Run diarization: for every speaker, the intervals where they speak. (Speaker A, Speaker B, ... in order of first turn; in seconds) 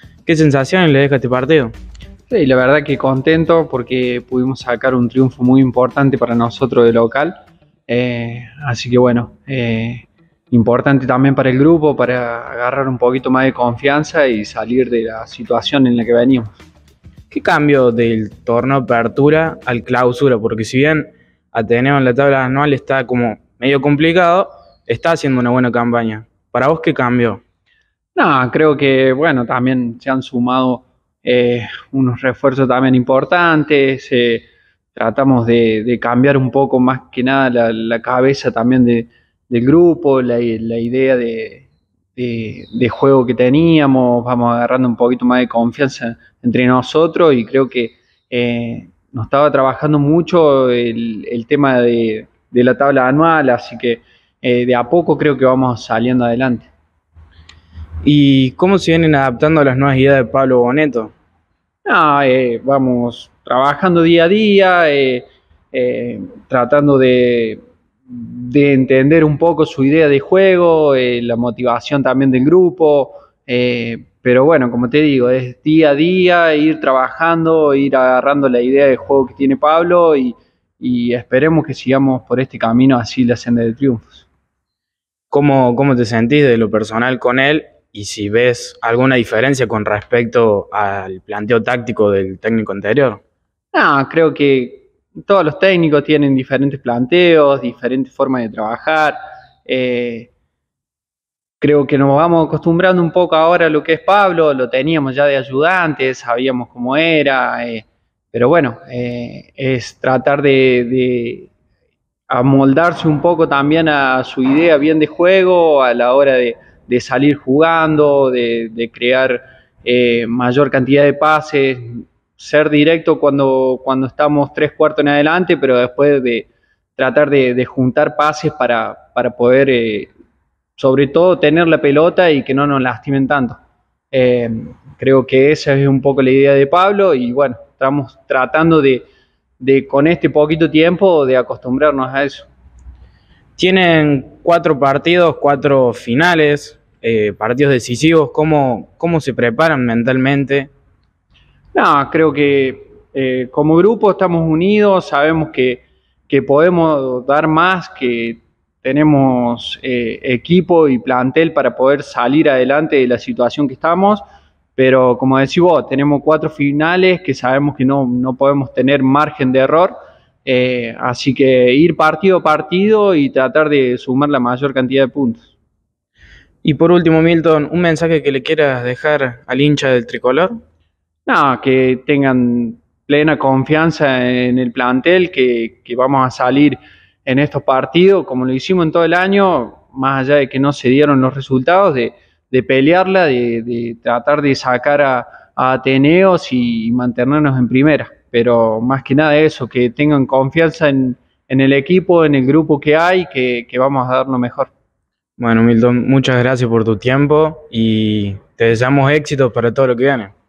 Speaker A: 0.3-1.7, 17.3-27.4, 58.0-61.1, 85.3-93.2, 143.6-150.7, 176.6-180.6, 205.4-210.3
Speaker B: 2.3-7.3, 7.9-16.6, 28.1-56.7, 61.9-84.3, 93.7-100.3, 101.6-111.5, 112.3-130.1, 130.8-133.6, 134.1-139.1, 139.6-142.5, 151.7-164.2, 164.8-175.5, 181.3-204.7